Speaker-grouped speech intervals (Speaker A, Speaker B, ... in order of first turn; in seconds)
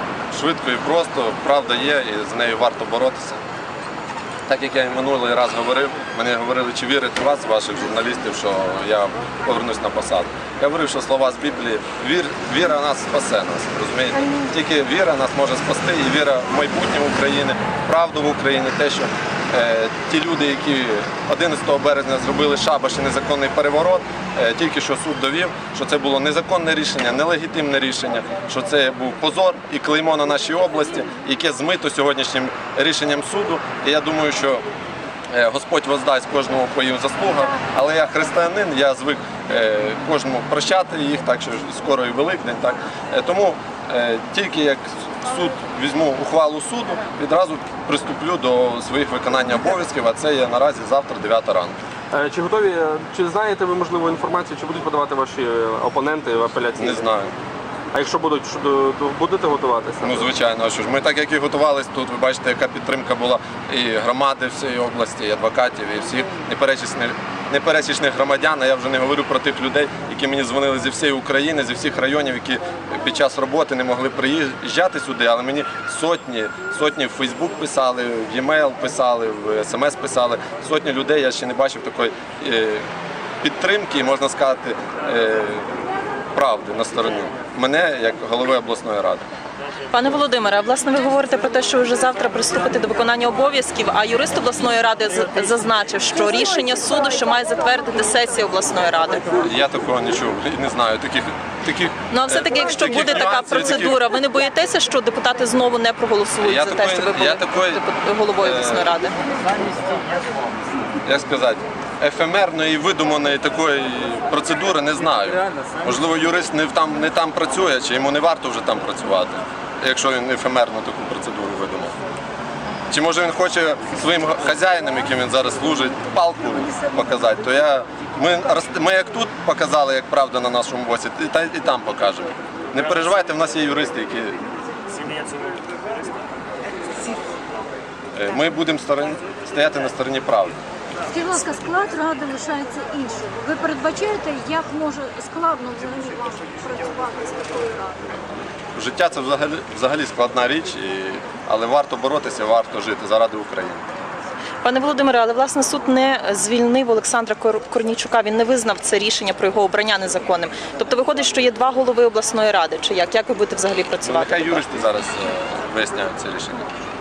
Speaker A: 0.3-3.4, 4.5-34.6, 35.3-51.8, 56.8-57.3, 60.0-82.8, 83.4-85.7, 86.3-89.2, 99.4-104.0, 106.4-107.8, 108.4-108.9, 111.0-121.9, 122.9-134.4, 138.1-140.6, 148.7-153.9, 164.0-166.7
Speaker B: 52.1-57.0, 57.9-60.3
Speaker C: 89.9-99.5, 102.1-109.1, 154.6-164.7
Speaker D: 96.3-98.4, 141.1-148.0